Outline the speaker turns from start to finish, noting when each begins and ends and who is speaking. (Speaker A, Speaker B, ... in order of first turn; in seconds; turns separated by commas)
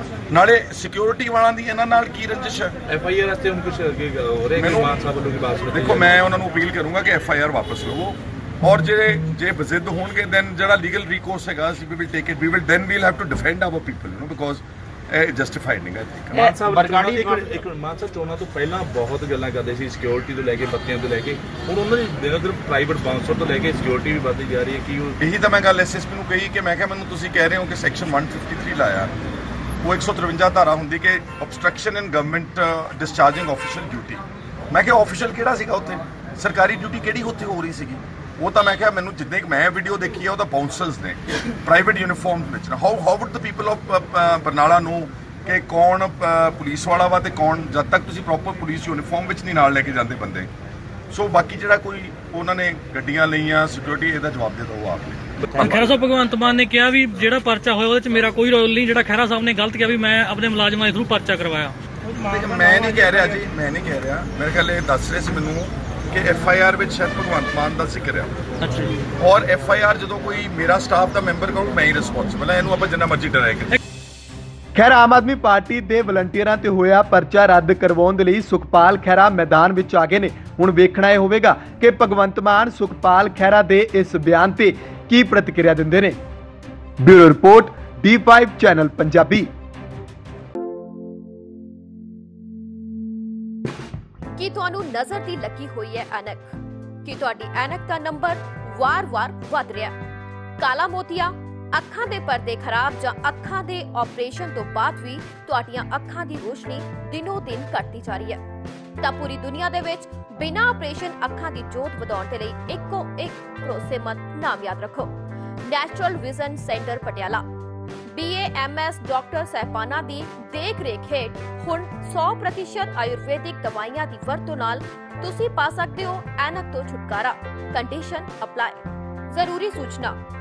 Speaker A: 0.3-2.8, Speaker B: 2.9-6.2, Speaker A: 4.6-5.0, Speaker A: 5.7-16.6, Speaker B: 16.3-25.1, Speaker A: 25.2-29.1, Speaker A: 29.8-50.5, Speaker A: 51.1-55.5, Speaker B: 55.5-55.8, Speaker C: 55.6-61.8, Speaker A: 62.1-68.3, Speaker C: 68.6-69.0, Speaker A: 69.2-73.8, Speaker D: 74.8-86.2, Speaker D: 87.0-89.5, Speaker E: 94.3-99.9, Speaker E: 100.6-108.4, Speaker E: 109.0-115.1, Speaker E: 115.6-117.4, Speaker E: 118.1-130.2